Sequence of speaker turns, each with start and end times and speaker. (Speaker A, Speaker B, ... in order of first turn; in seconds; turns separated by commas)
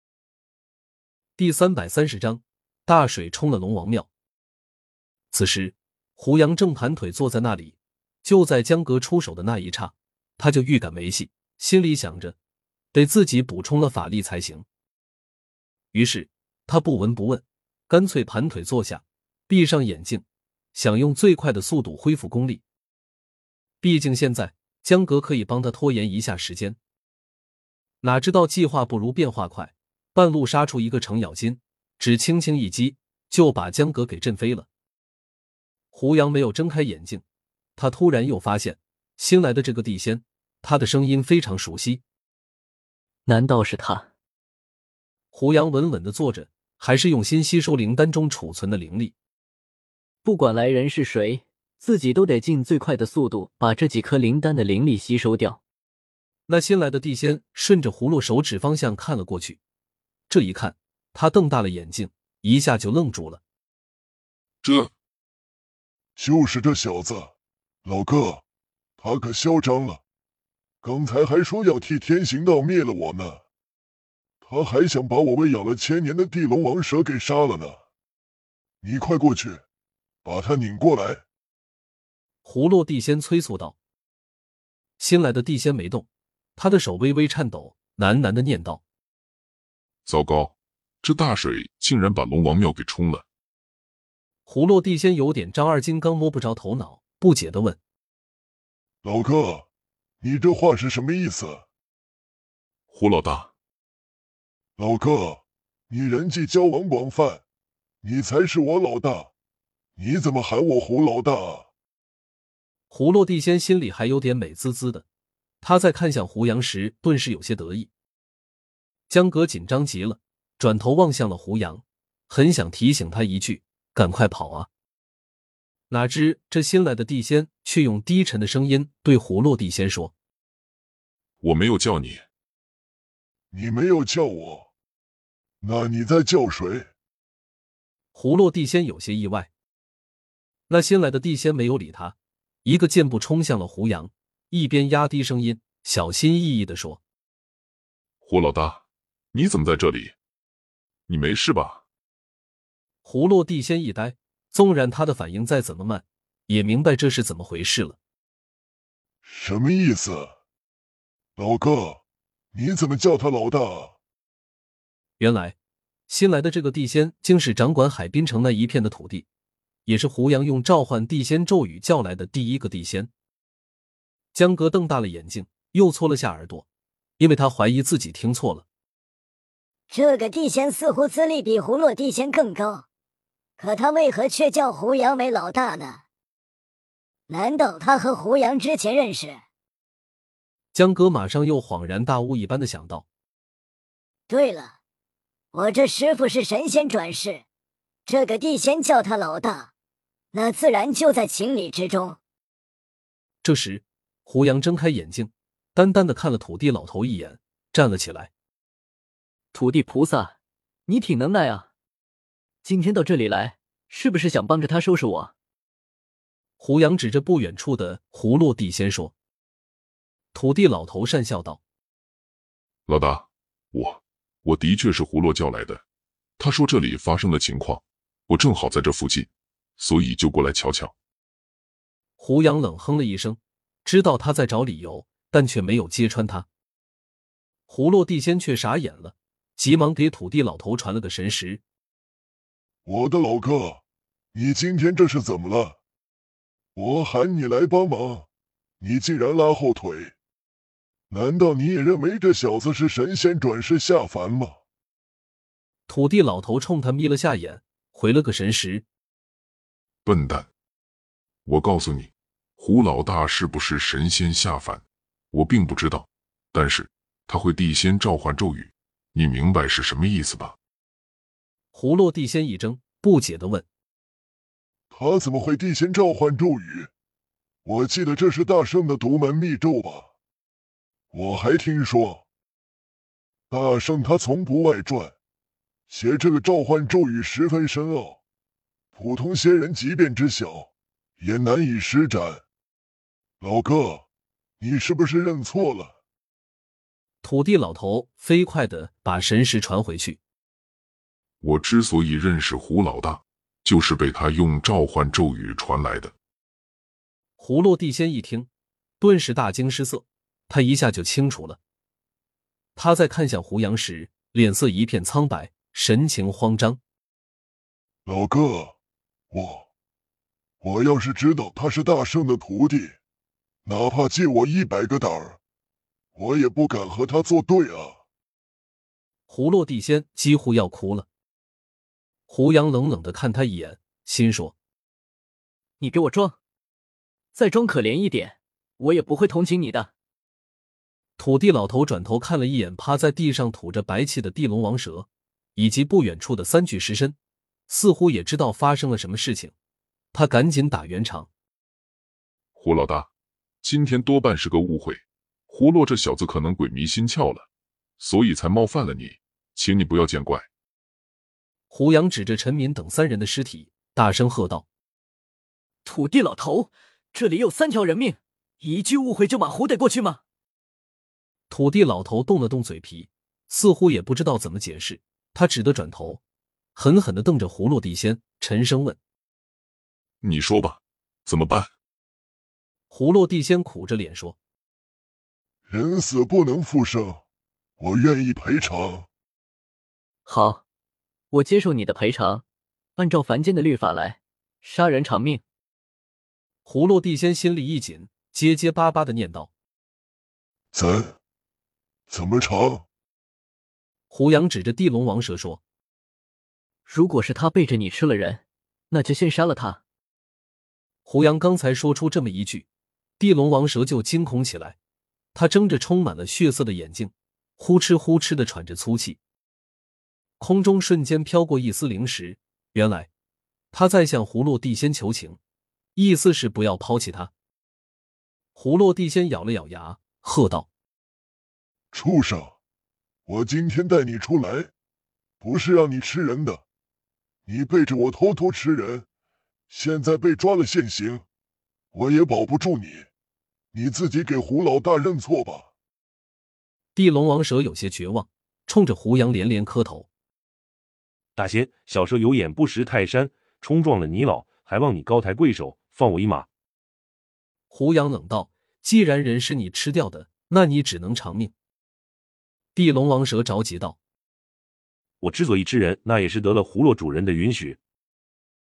Speaker A: 1.4-4.1, Speaker A: 5.3-12.3, Speaker A: 12.9-14.6, Speaker A: 15.9-22.6, Speaker A: 23.8-26.8, Speaker A: 28.0-34.7, Speaker A: 35.9-37.2, Speaker A: 37.8-42.0, Speaker B: 43.2-44.0, Speaker A: 45.3-49.1, Speaker B: 50.2-55.6, Speaker A: 56.5-59.6, Speaker A: 60.3-63.4, Speaker C: 64.6-64.9, Speaker D: 66.2-67.3, Speaker D: 67.8-68.4, Speaker D: 69.0-70.0, Speaker D: 70.8-73.4, Speaker D: 74.4-77.8, Speaker D: 78.8-79.6, Speaker D: 80.2-81.2, Speaker A: 82.4-83.8, Speaker A: 85.0-88.8, Speaker C: 90.0-93.2, Speaker A: 94.5-97.8, Speaker D: 99.0-99.7, Speaker D: 100.2-101.6, Speaker C: 102.9-103.5, Speaker D: 104.8-107.4, Speaker D: 108.0-109.3, Speaker D: 110.0-111.7, Speaker A: 112.9-115.0, Speaker A: 115.6-117.9, Speaker A: 119.1-124.7, Speaker A: 125.9-130.1, Speaker C: 131.4-132.3, Speaker D: 133.5-134.7, Speaker D: 135.6-136.9, Speaker A: 138.1-139.5, Speaker A: 140.7-147.0, Speaker C: 148.2-150.1, Speaker C: 151.1-151.8, Speaker A: 153.0-158.0, Speaker D: 159.2-160.3, Speaker D: 161.4-162.0, Speaker D: 162.5-163.9, Speaker A: 165.2-165.6, Speaker A: 166.1-169.3, Speaker A: 169.8-173.1, Speaker A: 174.3-176.7, Speaker A: 177.2-178.7, Speaker E: 179.9-182.8, Speaker E: 183.6-186.0, Speaker E: 187.3-189.4, Speaker A: 190.7-193.1, Speaker E: 194.3-194.7, Speaker E: 195.5-197.4, Speaker E: 198.1-199.7, Speaker E: 200.3-202.2, Speaker A: 203.4-208.3, Speaker B: 209.5-210.3, Speaker B: 210.9-211.7, Speaker B: 212.6-215.3, Speaker A: 216.6-219.1, Speaker A: 220.3-221.6, Speaker C: 222.9-225.8, Speaker C: 226.4-230.9, Speaker A: 232.2-236.5, Speaker A: 237.7-241.6, Speaker D: 242.8-243.8, Speaker D: 244.3-245.8, Speaker D: 246.7-248.3, Speaker D: 248.8-250.1, Speaker D: 251.1-254.6, Speaker A: 255.9-258.8, Speaker C: 260.0-260.5, Speaker C: 261.4-270.6, Speaker A: 271.7-273.6, Speaker D: 274.9-276.9, Speaker D: 277.6-280.1, Speaker D: 281.1-282.2, Speaker D: 283.5-285.1, Speaker D: 285.9-288.2, Speaker D: 288.9-292.4, Speaker D: 293.4-294.1, Speaker D: 294.6-295.9, Speaker A: 297.2-300.2, Speaker C: 301.4-306.1, Speaker A: 307.4-308.5, Speaker A: 309.0-311.6, Speaker A: 312.8-316.8, Speaker D: 318.1-318.7, Speaker D: 319.3-319.7, Speaker D: 320.6-322.9, Speaker D: 323.6-325.4, Speaker D: 326.1-328.0, Speaker A: 329.3-331.1, Speaker A: 332.3-334.5, Speaker B: 335.8-336.4, Speaker B: 337.3-339.9, Speaker A: 341.2-347.1, Speaker A: 347.7-349.5, Speaker A: 350.1-351.3, Speaker C: 352.6-353.1, Speaker C: 353.6-357.5, Speaker C: 358.0-360.5, Speaker A: 361.7-364.6, Speaker B: 365.8-370.2, Speaker A: 371.5-376.2, Speaker A: 376.7-379.0, Speaker C: 380.2-381.7, Speaker A: 382.9-384.4, Speaker D: 385.7-387.2, Speaker D: 387.8-389.1, Speaker B: 390.2-390.6, Speaker B: 391.3-392.4, Speaker B: 393.0-395.4, Speaker A: 396.6-399.5, Speaker D: 400.7-401.1, Speaker D: 402.1-402.8, Speaker A: 404.1-405.6, Speaker B: 406.9-409.8, Speaker A: 411.1-412.7, Speaker A: 413.2-414.8, Speaker A: 415.3-419.2, Speaker A: 420.4-423.1, Speaker A: 423.7-425.4, Speaker A: 425.9-427.3, Speaker A: 428.5-430.7, Speaker D: 431.9-432.6, Speaker D: 433.3-434.7, Speaker D: 435.4-436.6, Speaker D: 437.4-439.1, Speaker D: 439.7-441.2, Speaker D: 441.9-443.1, Speaker D: 443.7-445.7, Speaker A: 446.9-450.1, Speaker F: 451.4-456.5, Speaker A: 457.7-461.5, Speaker A: 462.7-464.0, Speaker F: 465.2-467.8